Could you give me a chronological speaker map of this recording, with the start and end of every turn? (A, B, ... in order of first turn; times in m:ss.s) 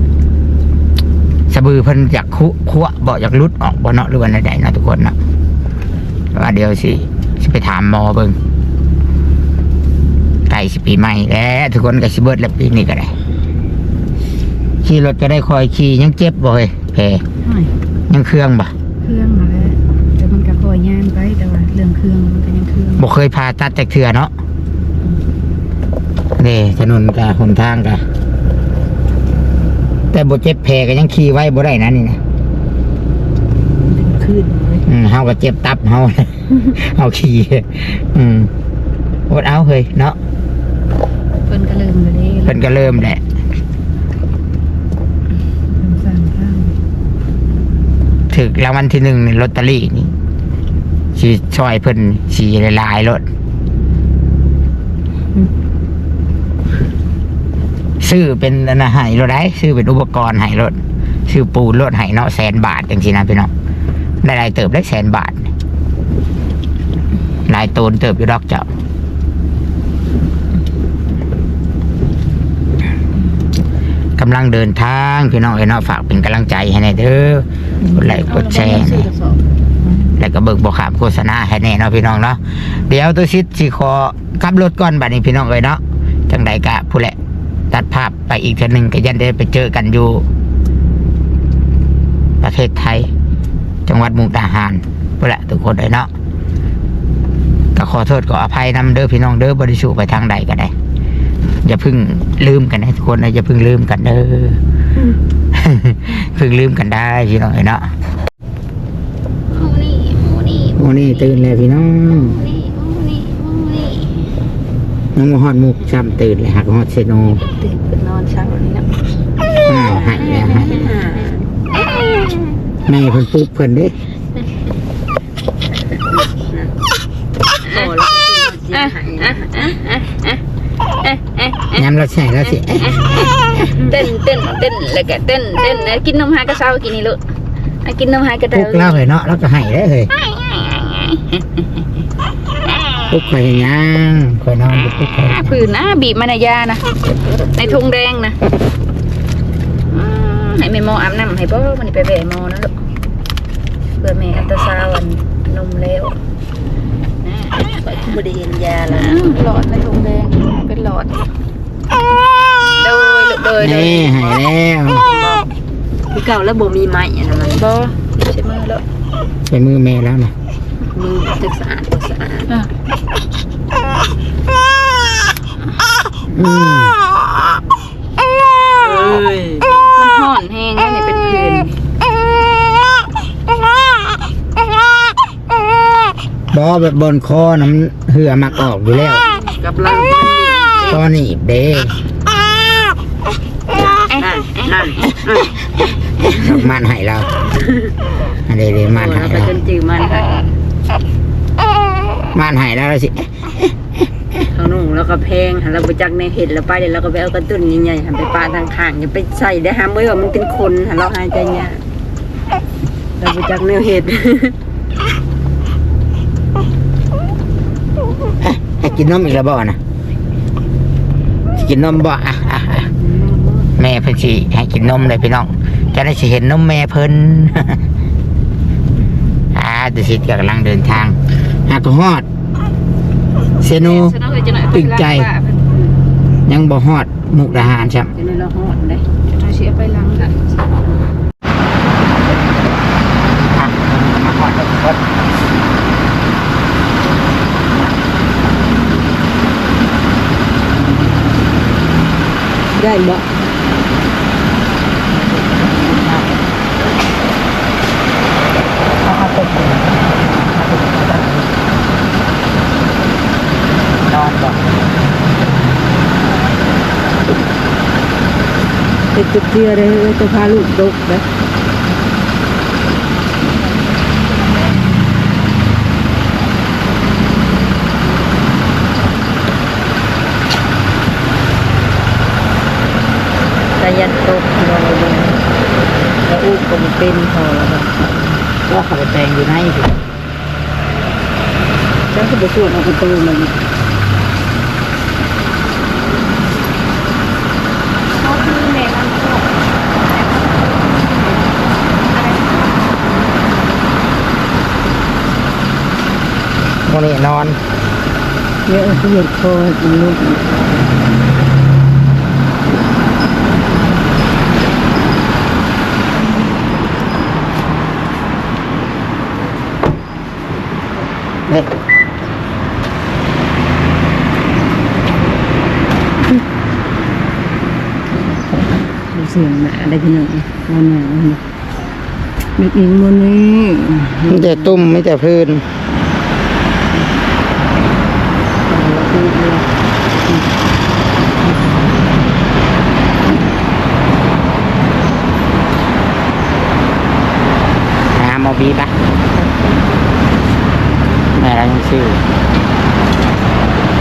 0:01.5-0:05.1 A
0:06.3-0:08.4 A
0:10.5-0:13.1 A
0:14.8-0:17.2 A
0:17.4-0:17.7 B
0:18.1-0:18.7 A
0:19.0-0:23.0 B
0:23.0-0:24.3 A
0:26.4-0:28.0 A
0:30.1-0:32.2 A
0:33.8-0:34.8 B
0:34.8-0:38.5 A
0:39.3-0:40.2 A
0:41.5-0:43.0 B
0:42.4-0:43.2 A
0:45.7-0:46.8 B
0:48.3-0:50.1 A
0:51.1-0:53.2 A
0:58.0-1:03.5 A
1:04.2-1:05.5 A
1:07.5-1:08.6 A
1:14.2-1:19.1 A
1:17.8-1:20.1 B
1:20.2-1:27.2 A
1:27.7-1:30.2 A
1:32.4-1:33.1 A
1:33.8-1:36.1 A
1:37.7-1:40.7 A
1:41.6-1:44.6 A
1:45.5-1:47.9 A
1:49.5-1:54.2 C
1:50.8-1:52.4 A
1:55.1-1:57.4 A
1:57.8-1:58.5 D
1:59.6-2:00.9 A
1:59.8-2:01.4 D
2:02.8-2:03.9 A
2:06.4-2:06.7 D
2:07.6-2:09.8 D
2:09.3-2:10.4 C
2:11.0-2:11.7 C
2:11.7-2:13.7 A
2:12.8-2:13.3 C
2:13.8-2:17.2 C
2:17.8-2:19.0 C
2:18.5-2:20.1 A
2:20.1-2:21.4 C
2:23.1-2:25.5 A
2:25.3-2:26.8 C
2:27.4-2:28.4 C
2:29.9-2:32.7 C
2:34.0-2:36.2 C
2:37.2-2:37.6 C
2:37.8-2:39.3 D
2:38.9-2:41.2 C
2:42.8-2:44.4 C
2:43.6-2:45.0 A
2:46.1-2:47.7 D
2:47.5-2:48.8 C
2:49.5-2:50.3 A
2:50.9-2:52.5 D
2:56.3-2:57.0 A
2:58.8-2:59.8 D
3:00.0-3:01.7 C
3:06.5-3:09.2 A
3:09.3-3:11.0 D
3:10.9-3:12.0 A
3:14.1-3:15.5 D
3:16.2-3:17.3 A
3:18.4-3:19.6 A
3:18.9-3:20.5 D
3:22.3-3:23.7 A
3:24.5-3:31.8 D
3:33.2-3:34.5 D
3:38.4-3:39.8 A
3:41.5-3:42.9 A
3:43.0-3:43.7 D
3:43.8-3:47.8 A
3:49.5-3:52.2 A
3:53.6-3:54.2 A
3:53.7-3:55.9 C
3:54.7-3:55.3 A
3:56.5-3:58.1 A
3:58.1-3:59.0 D
3:59.3-4:00.5 C
4:03.5-4:05.0 A
4:12.7-4:13.3 D
4:15.9-4:16.3 A
4:19.0-4:21.5 A
4:24.0-4:24.6 A
4:29.1-4:31.2 D
4:43.8-4:45.4 D
4:46.2-4:48.4 D
4:48.7-4:50.0 A
4:52.1-4:53.5 D
4:58.2-5:01.6 C
5:02.1-5:02.9 C
5:06.9-5:07.6 A
5:08.6-5:10.5 D
5:29.1-5:31.4 D
5:32.6-5:34.7 D
5:34.3-5:35.7 A
5:38.6-5:40.5 D
5:41.4-5:41.8 D
5:48.1-5:49.0 A
5:51.4-5:52.2 A